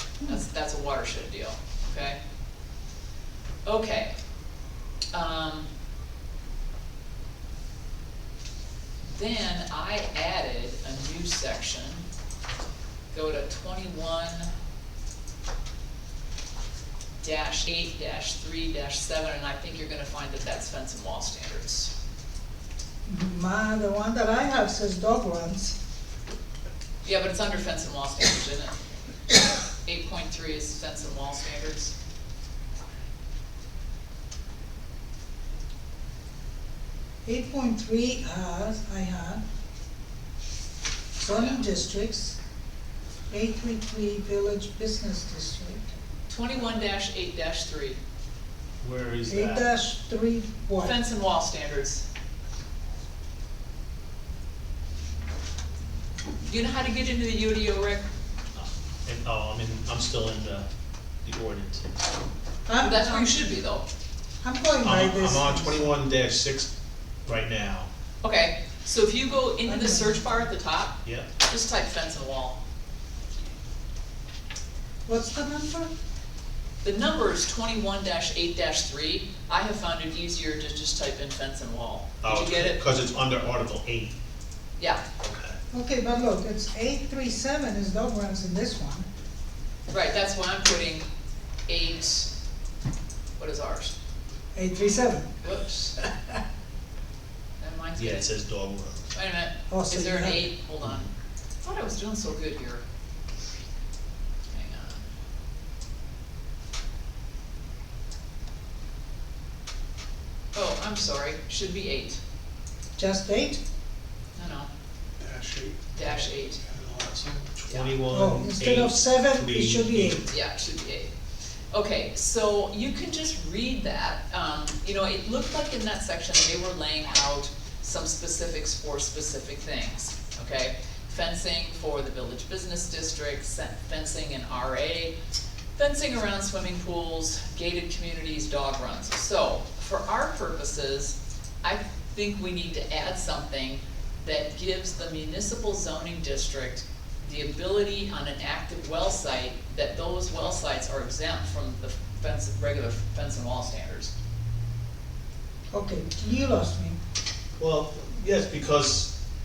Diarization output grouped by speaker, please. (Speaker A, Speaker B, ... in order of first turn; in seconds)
Speaker A: 0.3-2.2, 3.6-4.1, 5.1-5.7, 9.1-12.1, 13.1-14.5, 17.2-21.9, 27.0-28.7, 29.8-31.9, 41.3-41.6, 46.3-48.0, 50.8-52.0, 56.5-58.0, 62.8-63.9, 68.2-72.6, 76.8-82.8, 89.9-91.1, 91.7-92.3, 93.4-94.0, 95.4-96.0, 97.6-98.3, 99.1-101.1, 101.6-102.8, 104.5-105.0, 110.5-112.2, 114.4-114.7, 116.0-116.6, 117.7-117.9, 120.3-121.1, 121.7-135.2, 135.8-154.1
Speaker B: 23.1-25.8, 37.2-39.4, 41.2-42.4, 43.3-45.9, 49.3-51.0, 62.7-63.4, 64.4-65.9, 69.7-70.4, 75.1-75.9, 85.7-89.1, 94.5-95.4, 96.0-96.4, 99.7-100.5, 113.0-113.6, 118.1-120.2, 155.7-157.0
Speaker C: 48.8-49.7, 58.5-60.7, 61.2-62.0, 64.8-66.7, 67.3-67.9, 82.2-84.2, 85.2-85.6, 98.0-99.1, 117.6-120.3, 157.6-159.1
Speaker D: 115.2-117.5